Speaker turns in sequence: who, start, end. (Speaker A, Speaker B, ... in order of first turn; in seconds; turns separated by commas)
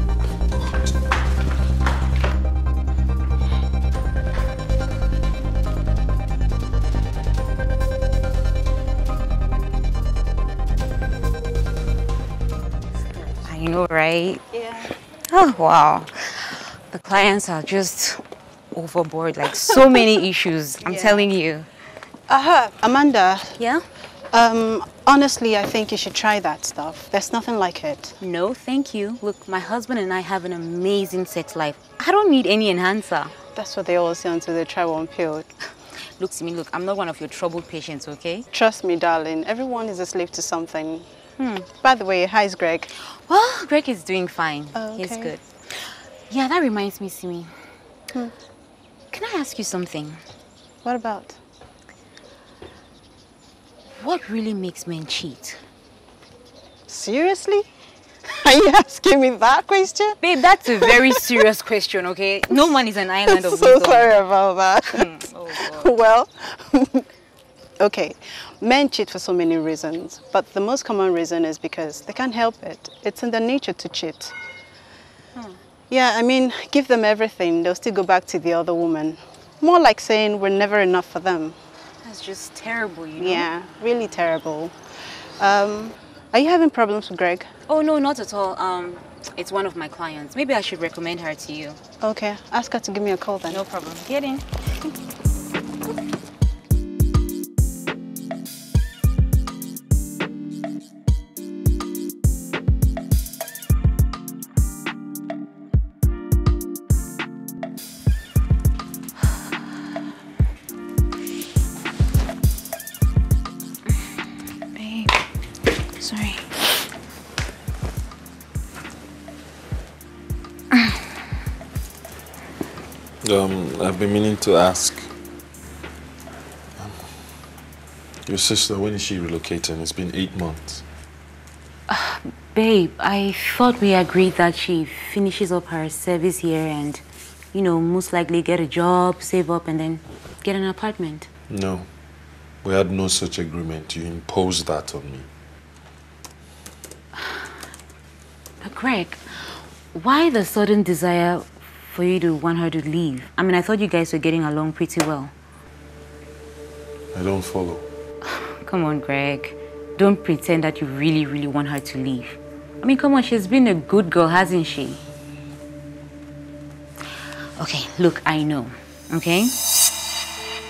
Speaker A: 0.5-1.0, Speaker B: 13.4-14.4, Speaker C: 14.5-14.9, Speaker B: 15.3-18.2, Speaker B: 18.7-21.7, Speaker C: 20.8-21.2, Speaker C: 22.3-23.5, Speaker B: 23.6-23.8, Speaker C: 24.3-28.1, Speaker B: 28.2-33.3, Speaker C: 33.5-35.5, Speaker B: 36.2-38.5, Speaker C: 38.5-41.1, Speaker B: 41.4-41.7, Speaker C: 41.8-42.9, Speaker B: 43.0-47.5, Speaker C: 44.7-45.3, Speaker B: 49.1-50.2, Speaker C: 50.8-51.4, Speaker B: 54.0-55.6, Speaker C: 56.9-57.7, Speaker C: 58.3-60.2, Speaker B: 60.2-64.1, Speaker C: 60.8-61.4, Speaker C: 63.2-67.0, Speaker B: 64.9-65.9, Speaker C: 67.8-74.3, Speaker C: 75.9-81.6, Speaker B: 82.0-83.5, Speaker C: 83.2-87.5, Speaker B: 87.7-91.8, Speaker C: 92.0-93.6, Speaker B: 93.5-94.5, Speaker B: 114.7-115.2, Speaker B: 116.0-116.6, Speaker A: 123.2-125.1, Speaker A: 126.8-127.1, Speaker A: 128.2-130.8, Speaker B: 131.9-137.0, Speaker B: 137.5-141.3, Speaker A: 141.5-141.9, Speaker A: 142.6-145.3, Speaker B: 147.2-147.5, Speaker B: 148.6-155.3, Speaker A: 157.1-157.8, Speaker B: 158.2-165.0, Speaker B: 167.6-169.5